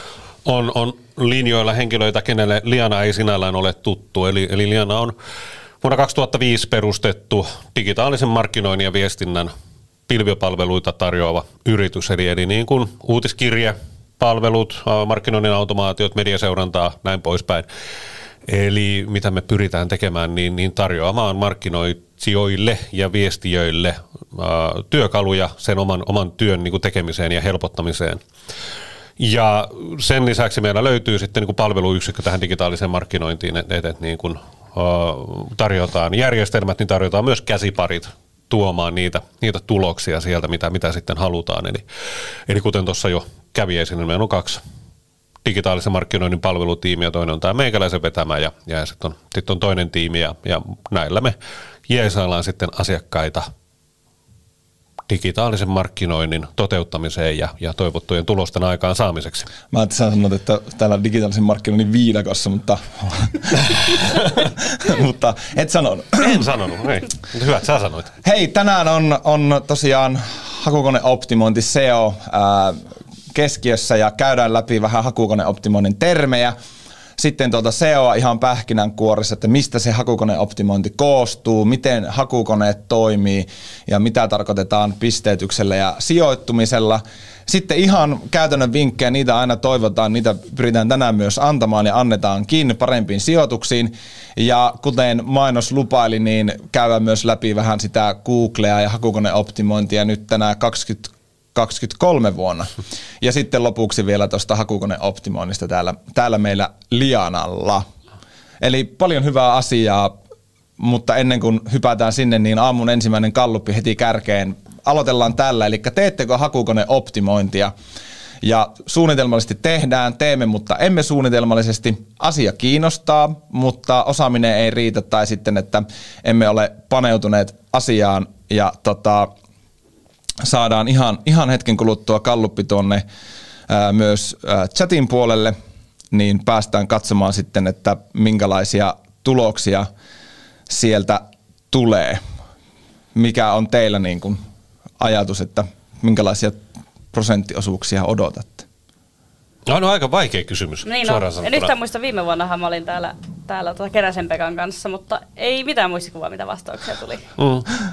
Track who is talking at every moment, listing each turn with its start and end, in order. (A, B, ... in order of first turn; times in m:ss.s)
0:00.4-0:05.2 A
0:05.8-0:09.5 A
0:10.1-0:17.7 A
0:18.5-0:28.2 A
0:29.2-0:41.8 A
0:42.5-0:44.6 A
0:45.4-0:51.4 A
0:51.9-0:53.5 A
0:55.1-0:59.5 A
0:59.7-1:06.4 B
1:06.2-1:08.1 A
1:08.2-1:16.6 B
1:17.2-1:47.8 B
1:48.6-1:50.2 B
1:50.8-1:57.7 B
1:58.4-2:09.3 B
2:10.4-2:13.0 B
2:13.7-2:15.6 B
2:16.1-2:19.9 B
2:20.7-2:22.2 B
2:23.2-2:24.4 B
2:25.0-2:26.6 B
2:27.1-2:28.7 B
2:29.7-2:31.7 A
2:30.9-2:37.3 C
2:37.4-2:37.7 A